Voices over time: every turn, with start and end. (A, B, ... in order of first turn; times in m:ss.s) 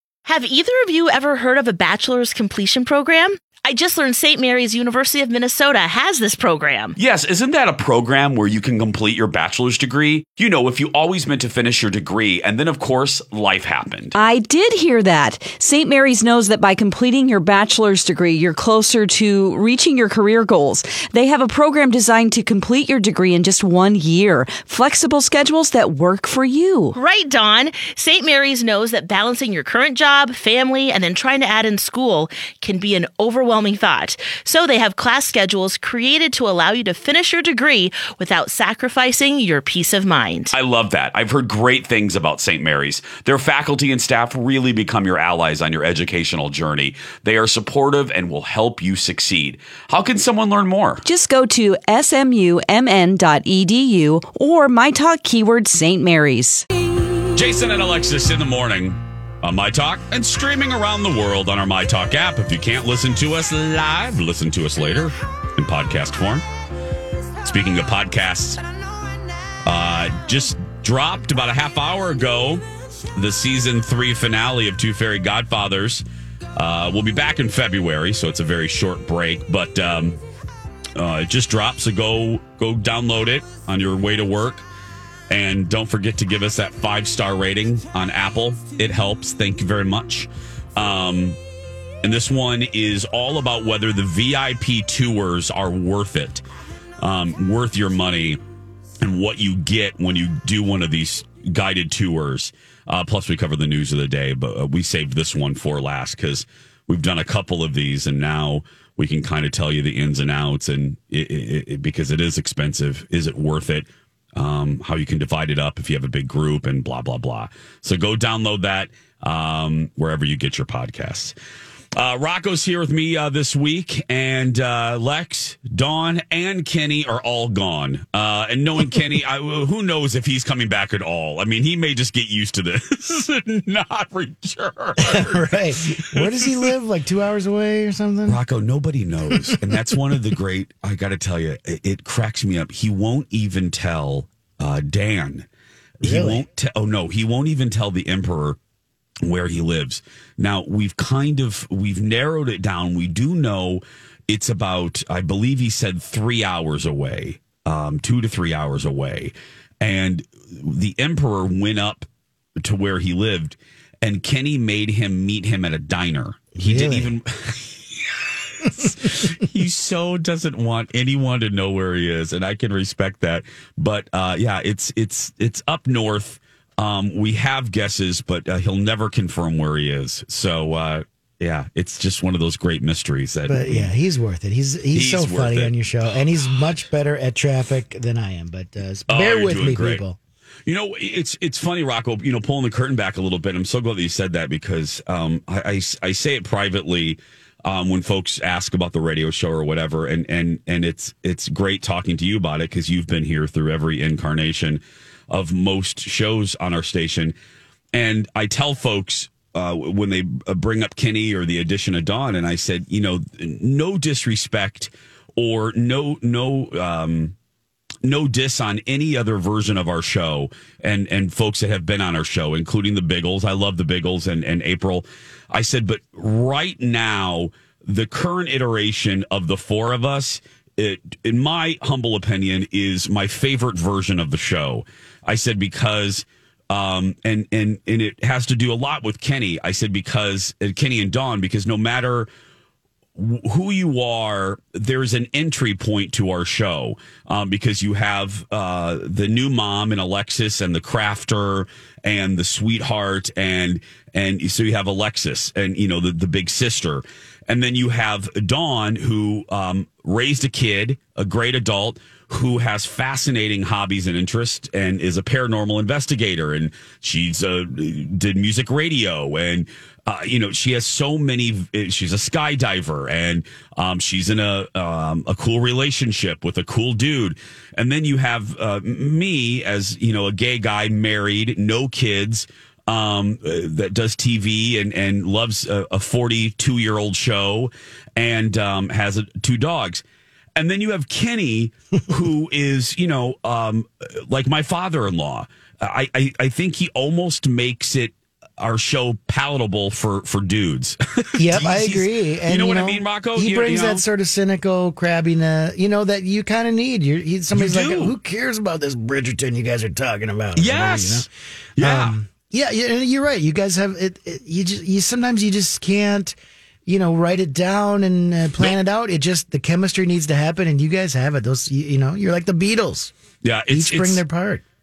0:00.2-0:07.0 A
0:07.0-0:14.2 B
0:14.2-0:27.0 C
0:26.9-0:40.5 A
0:40.5-0:51.0 B
0:51.0-0:56.7 C
0:57.3-1:06.4 B
1:07.4-1:08.6 B
1:09.6-1:16.0 B
1:16.6-1:20.2 B
1:21.0-1:24.7 B
1:25.3-1:31.4 B
1:32.0-1:36.4 B
1:37.0-1:38.4 B
1:39.0-2:01.4 B
2:02.0-2:16.7 B
2:15.0-2:18.4 D
2:18.3-2:25.5 B
2:19.3-2:19.8 D
2:26.0-2:26.4 D
2:26.0-2:28.6 B
2:29.2-2:42.0 B
2:42.6-3:03.9 B
2:46.6-2:47.1 D
2:48.6-2:48.9 D
3:03.5-3:10.2 D
3:04.9-3:05.7 B
3:09.1-3:10.0 B
3:10.7-3:27.3 B
3:27.9-3:37.3 B
3:38.0-4:02.3 B
4:03.2-4:50.0 B
4:50.6-5:04.0 B
5:01.4-5:23.1 D
5:07.5-5:08.2 B
5:10.6-5:12.2 B
5:23.4-5:24.2 B
5:23.7-5:24.6 D